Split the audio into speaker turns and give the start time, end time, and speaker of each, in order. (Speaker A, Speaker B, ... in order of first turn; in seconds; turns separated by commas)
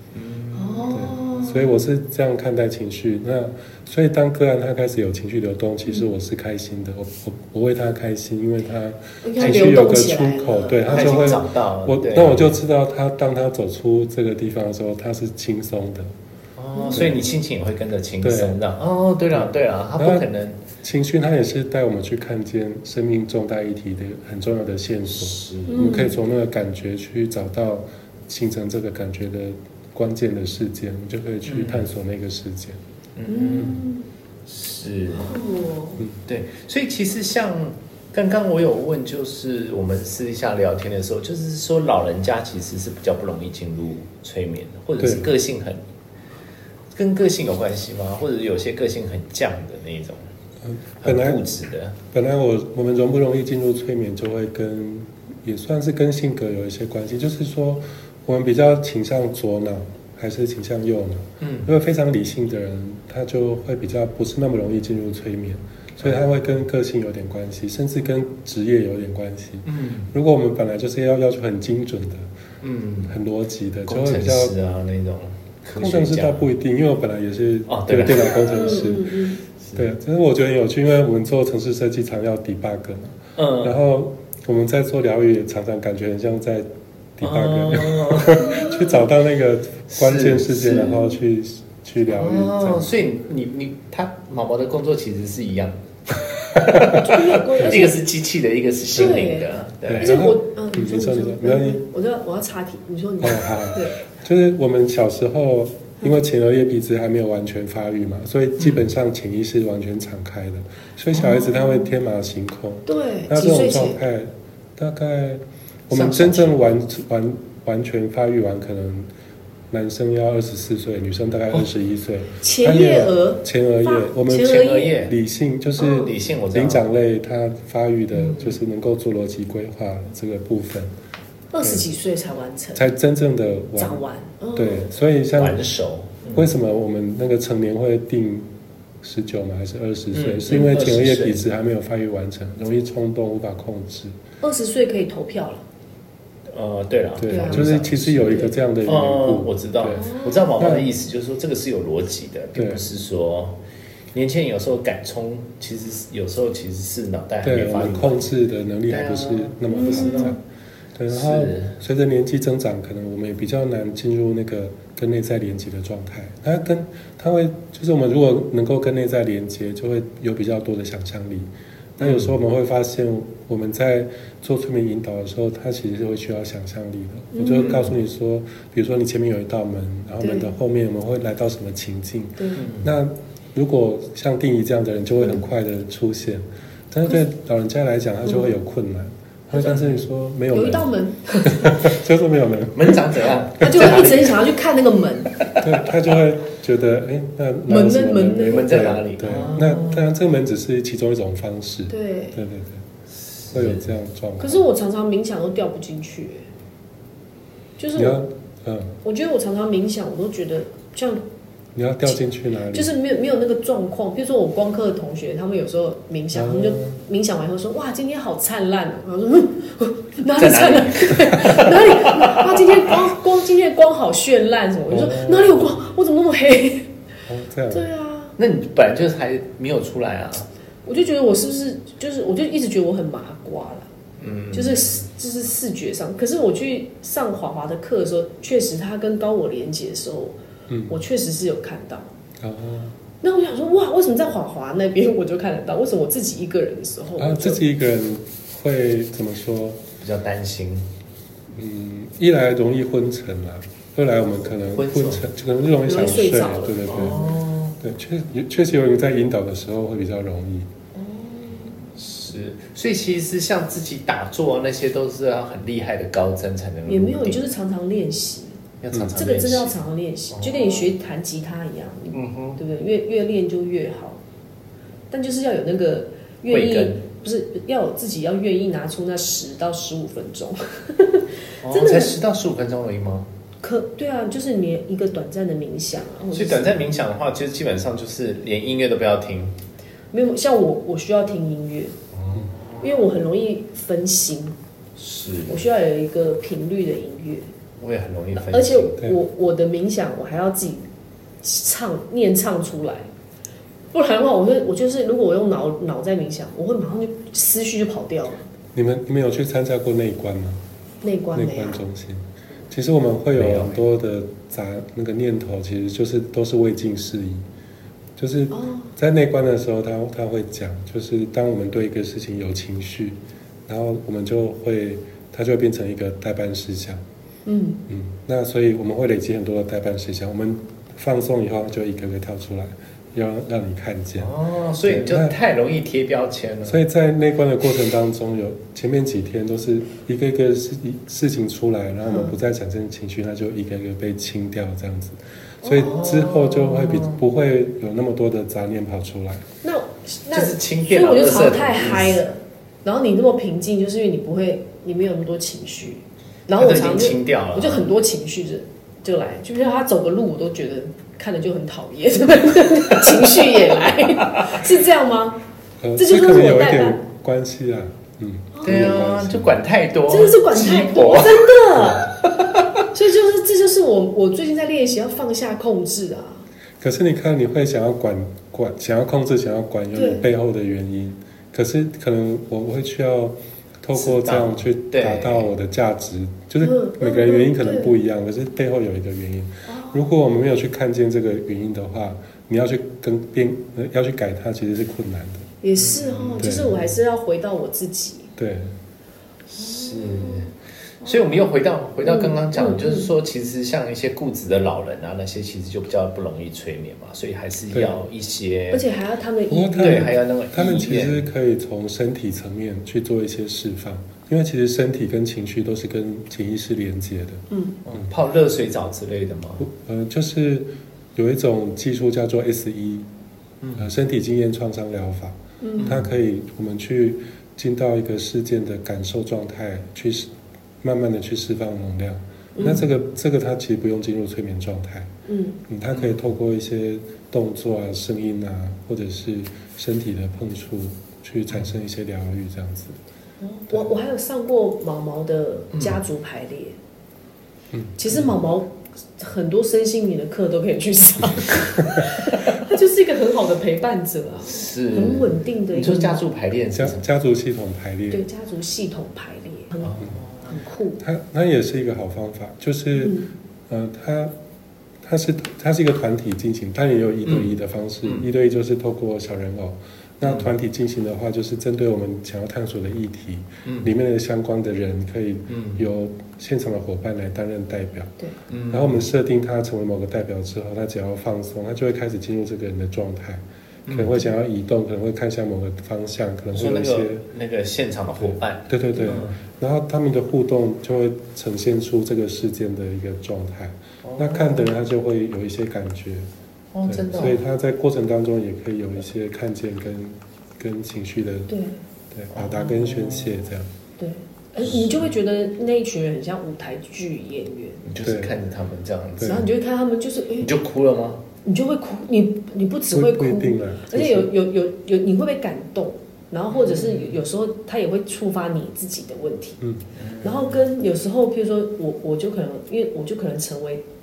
Speaker A: 0.1-1.2, Speaker B: 0.5-1.8, Speaker C: 0.9-16.1, Speaker B: 9.2-11.4, Speaker A: 9.4-9.8, Speaker A: 10.9-12.6, Speaker A: 16.6-20.6, Speaker B: 16.7-17.1, Speaker C: 16.9-17.3, Speaker C: 18.2-18.6, Speaker C: 19.4-20.3, Speaker C: 20.8-32.8, Speaker A: 25.1-26.0, Speaker B: 25.7-26.2, Speaker A: 31.5-31.9, Speaker A: 33.2-33.8, Speaker B: 33.3-34.1, Speaker A: 34.5-35.6, Speaker B: 35.1-36.0, Speaker A: 36.3-45.8, Speaker C: 45.0-45.3, Speaker A: 47.0-50.2, Speaker C: 50.6-51.4, Speaker A: 51.0-52.0, Speaker C: 52.1-72.3, Speaker A: 61.4-61.7, Speaker A: 69.7-70.1, Speaker A: 72.6-73.2, Speaker C: 73.1-74.5, Speaker A: 73.9-76.5, Speaker C: 75.8-79.1, Speaker A: 77.7-78.9, Speaker B: 78.5-79.4, Speaker C: 79.8-92.9, Speaker A: 83.4-83.8, Speaker A: 87.2-88.6, Speaker B: 88.4-89.0, Speaker A: 89.9-91.1, Speaker A: 92.1-100.2, Speaker C: 96.7-97.0, Speaker B: 96.9-98.0, Speaker C: 97.6-97.8, Speaker B: 98.9-104.0, Speaker C: 99.9-101.8, Speaker C: 103.2-119.1, Speaker B: 111.1-111.9, Speaker B: 112.9-114.0, Speaker A: 115.9-116.7, Speaker C: 119.7-130.9, Speaker B: 122.4-125.0, Speaker A: 124.3-125.1, Speaker B: 125.8-126.1, Speaker A: 125.8-126.8, Speaker A: 128.1-128.6, Speaker B: 131.5-132.9, Speaker C: 132.8-134.0, Speaker B: 133.8-134.9, Speaker C: 134.6-135.6, Speaker A: 135.3-136.5, Speaker C: 136.3-138.5, Speaker C: 139.0-144.2, Speaker A: 140.1-141.4, Speaker B: 144.4-145.6, Speaker A: 146.5-153.6, Speaker C: 147.2-150.9, Speaker B: 147.3-147.7, Speaker B: 149.9-150.5, Speaker C: 152.6-152.8, Speaker A: 154.1-158.3, Speaker C: 157.4-160.4, Speaker A: 158.9-160.3, Speaker B: 159.7-160.4, Speaker C: 161.0-190.9, Speaker A: 161.1-161.8, Speaker A: 172.0-172.3, Speaker B: 177.3-177.9, Speaker A: 177.5-177.9, Speaker B: 180.2-180.5, Speaker B: 182.4-182.6, Speaker A: 182.6-182.9, Speaker A: 189.6-190.0, Speaker B: 190.5-192.0, Speaker C: 191.4-193.0, Speaker A: 192.7-194.6, Speaker C: 193.6-194.0, Speaker B: 193.6-195.4, Speaker C: 195.6-202.8, Speaker B: 197.7-198.9, Speaker A: 198.5-200.1, Speaker B: 201.9-202.4, Speaker A: 203.3-203.9, Speaker C: 203.5-204.6, Speaker B: 204.4-206.5, Speaker B: 207.8-208.2, Speaker C: 207.9-209.0, Speaker B: 209.0-211.2, Speaker C: 211.8-212.9, Speaker B: 212.7-226.9, Speaker C: 216.3-216.9, Speaker A: 220.4-223.0, Speaker A: 225.0-225.6, Speaker C: 227.3-227.9, Speaker B: 227.7-228.4, Speaker A: 228.4-230.5, Speaker B: 230.9-233.9, Speaker A: 234.2-235.0, Speaker B: 234.5-240.4, Speaker B: 240.9-242.1, Speaker C: 242.4-242.9, Speaker B: 243.2-247.6, Speaker C: 247.2-249.8, Speaker A: 250.0-250.9, Speaker C: 251.5-257.2, Speaker A: 254.5-255.2, Speaker B: 255.9-257.3, Speaker A: 256.9-257.8, Speaker C: 257.8-260.7, Speaker B: 260.9-261.8, Speaker A: 262.0-267.4, Speaker B: 266.9-268.6, Speaker A: 268.8-269.8, Speaker B: 269.1-274.2, Speaker A: 270.3-270.9, Speaker A: 272.1-272.6, Speaker B: 275.1-282.1, Speaker A: 276.5-277.0, Speaker A: 281.6-283.3, Speaker B: 283.6-287.1, Speaker A: 286.3-289.6, Speaker B: 290.1-292.0, Speaker A: 292.1-292.8, Speaker B: 292.8-294.6, Speaker A: 295.0-295.7, Speaker B: 295.5-297.5, Speaker A: 297.8-299.1, Speaker B: 298.4-300.9, Speaker B: 301.4-303.1, Speaker B: 303.9-308.4, Speaker C: 308.7-310.6, Speaker B: 311.0-311.8, Speaker C: 311.3-317.4, Speaker A: 313.3-313.8, Speaker C: 318.2-327.0, Speaker B: 318.5-318.9, Speaker B: 327.5-327.8, Speaker C: 327.9-335.3, Speaker A: 334.2-336.8, Speaker C: 336.7-349.4, Speaker B: 342.1-342.3, Speaker B: 345.6-346.3, Speaker A: 345.9-347.2, Speaker B: 349.6-365.4, Speaker A: 350.3-352.2, Speaker A: 356.5-357.9, Speaker C: 365.8-369.5, Speaker B: 366.0-367.0, Speaker B: 368.5-368.9, Speaker A: 368.6-372.7, Speaker B: 370.1-372.1, Speaker B: 372.9-376.5, Speaker C: 376.8-395.5, Speaker B: 379.9-380.2, Speaker A: 383.9-385.5, Speaker B: 386.6-387.9, Speaker B: 389.7-390.1, Speaker B: 395.6-398.3, Speaker A: 395.8-396.9, Speaker C: 396.4-396.7, Speaker C: 398.4-398.8, Speaker A: 399.5-408.9, Speaker B: 399.6-400.5, Speaker B: 402.0-403.1, Speaker B: 408.7-410.2, Speaker C: 409.5-417.4, Speaker A: 409.8-411.2, Speaker B: 417.5-417.8, Speaker A: 417.9-419.7, Speaker C: 419.6-423.1, Speaker A: 423.6-423.9, Speaker C: 423.8-430.3, Speaker B: 425.6-425.9, Speaker A: 425.8-426.1, Speaker C: 430.8-435.1, Speaker B: 432.6-432.8, Speaker B: 435.3-435.6, Speaker C: 435.7-443.0, Speaker A: 435.9-436.2, Speaker B: 443.4-446.8, Speaker A: 445.7-446.0, Speaker B: 448.0-456.2, Speaker A: 454.4-457.1, Speaker C: 456.7-458.2, Speaker B: 458.1-461.0, Speaker A: 459.8-460.6, Speaker C: 461.0-464.3, Speaker B: 463.0-463.3, Speaker C: 465.0-478.1, Speaker A: 467.2-468.3, Speaker A: 470.2-470.5, Speaker A: 473.6-473.9, Speaker A: 475.5-475.8, Speaker A: 478.5-479.1, Speaker C: 478.7-487.2, Speaker A: 483.9-484.2, Speaker A: 486.5-489.4, Speaker C: 488.2-496.3, Speaker A: 494.0-494.7, Speaker A: 496.7-497.4, Speaker C: 496.9-501.5, Speaker B: 501.5-501.8, Speaker C: 502.1-503.7, Speaker A: 502.3-503.5, Speaker B: 504.0-507.8, Speaker A: 504.7-505.0, Speaker A: 507.8-509.4, Speaker C: 508.0-508.4, Speaker B: 509.2-510.5, Speaker A: 510.4-511.2, Speaker B: 511.4-519.6, Speaker C: 512.9-514.3, Speaker A: 516.5-517.2, Speaker A: 520.0-520.6, Speaker B: 520.2-523.8